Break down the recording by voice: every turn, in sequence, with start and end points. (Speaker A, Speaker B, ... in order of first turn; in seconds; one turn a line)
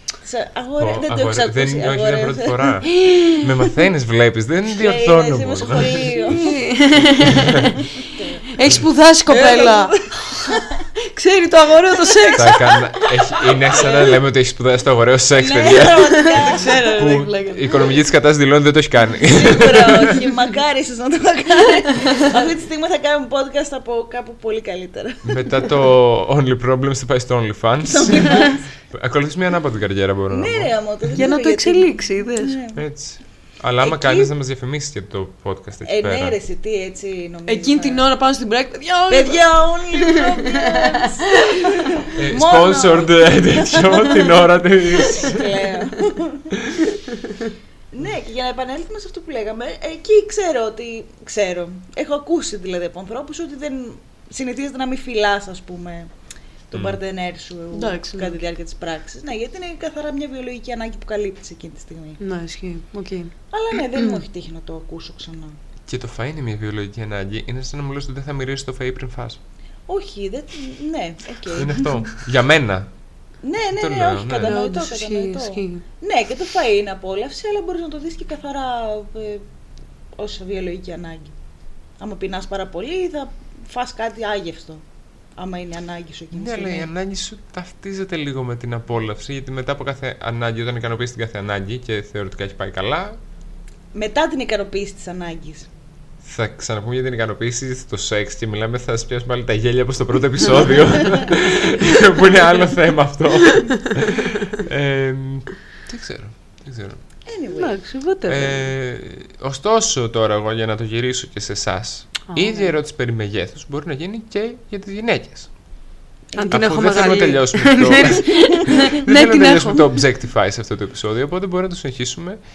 Speaker A: 0.2-2.9
Speaker B: 0.8-6.5
Speaker C: 2.9-3.6
Speaker A: 4.7-6.6
Speaker C: 6.2-7.9
Speaker B: 7.2-7.7
Speaker A: 7.8-8.5
Speaker C: 8.5-12.8
Speaker A: 9.3-10.8
Speaker A: 12.1-12.7
Speaker B: 12.3-20.3
Speaker A: 13.3-14.1
Speaker A: 15.3-17.1
Speaker C: 15.9-17.8
Speaker A: 19.2-25.6
Speaker B: 25.2-30.7
Speaker A: 27.9-28.7
Speaker A: 30.3-32.8
Speaker C: 31.2-32.6
Speaker B: 32.8-36.4
Speaker A: 33.8-34.3
Speaker A: 35.9-38.0
Speaker C: 37.5-41.3
Speaker A: 39.1-46.6
Speaker B: 42.1-45.5
Speaker A: 47.9-56.1
Speaker A: 56.7-62.2
Speaker B: 56.7-57.0
Speaker C: 57.7-58.4
Speaker C: 62.2-64.2
Speaker A: 63.5-65.6
Speaker B: 65.9-69.4
Speaker A: 69.9-72.1
Speaker B: 71.5-72.9
Speaker A: 73.4-79.5
Speaker B: 73.7-74.5
Speaker C: 74.4-75.8
Speaker A: 80.2-81.3
Speaker A: 82.0-84.8
Speaker A: 85.4-86.9
Speaker B: 86.3-93.2
Speaker A: 93.9-95.7
Speaker B: 96.2-107.0
Speaker C: 103.4-103.8
Speaker A: 107.3-107.8
Speaker C: 107.5-108.7
Speaker B: 108.3-115.5
Speaker C: 112.3-112.7
Speaker A: 116.3-116.7
Speaker C: 116.4-119.9
Speaker B: 116.5-122.4